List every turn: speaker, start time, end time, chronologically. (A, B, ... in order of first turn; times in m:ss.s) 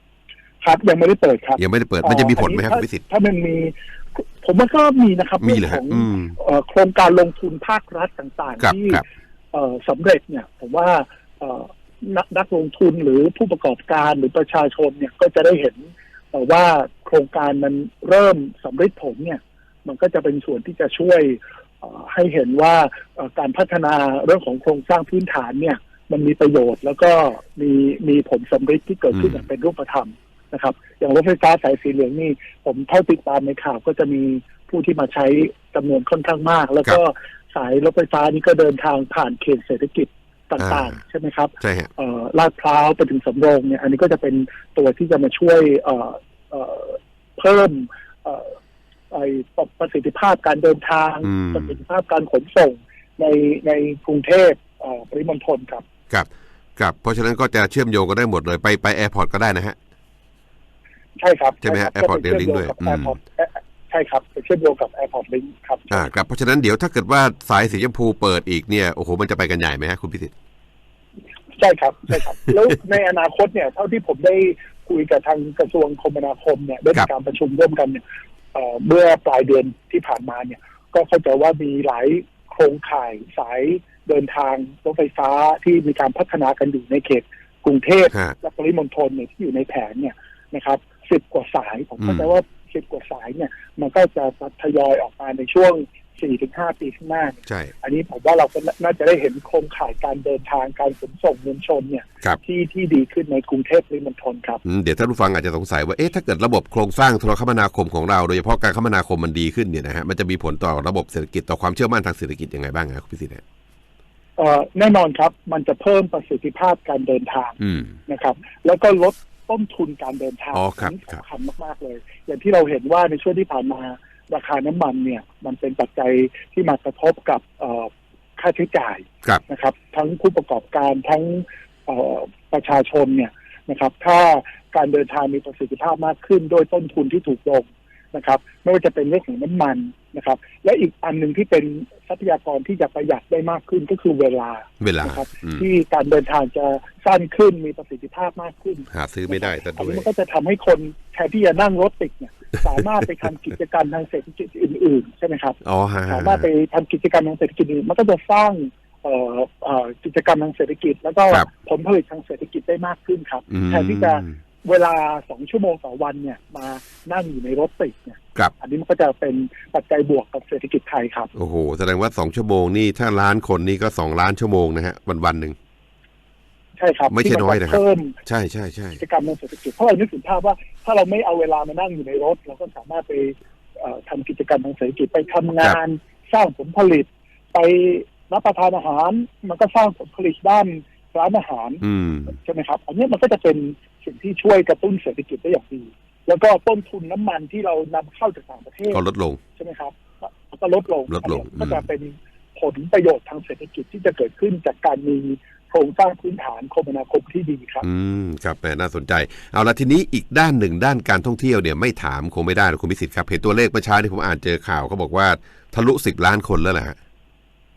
0:00.6-0:48.6 A
0:01.6-0:03.0 B
0:05.4-0:06.4 B
0:08.6-0:09.0 B
0:29.2-0:29.4 B
0:40.6-0:41.0 B
0:41.6-0:41.9 B
0:49.1-0:55.8 A
0:51.2-0:51.8 B
0:56.1-0:59.8 B
1:01.2-1:06.1 A
1:01.6-1:03.2 B
1:05.9-1:10.3 B
1:11.6-1:18.0 A
1:18.5-1:44.6 A
1:32.0-1:32.3 B
1:37.5-1:37.7 B
1:44.6-1:53.4 B
1:54.4-2:51.3 A
1:57.6-1:58.0 B
2:00.5-2:01.2 B
2:24.8-2:25.7 B
2:28.9-2:30.1 B
2:35.6-2:36.5 B
2:43.5-2:44.4 B
2:51.4-2:55.6 B
2:56.8-2:58.2 A
2:57.1-2:59.0 B
2:59.0-3:19.0 A
3:11.8-3:12.4 B
3:18.9-3:19.4 B
3:19.6-3:27.8 A
3:21.1-3:21.8 B
3:27.8-3:37.0 B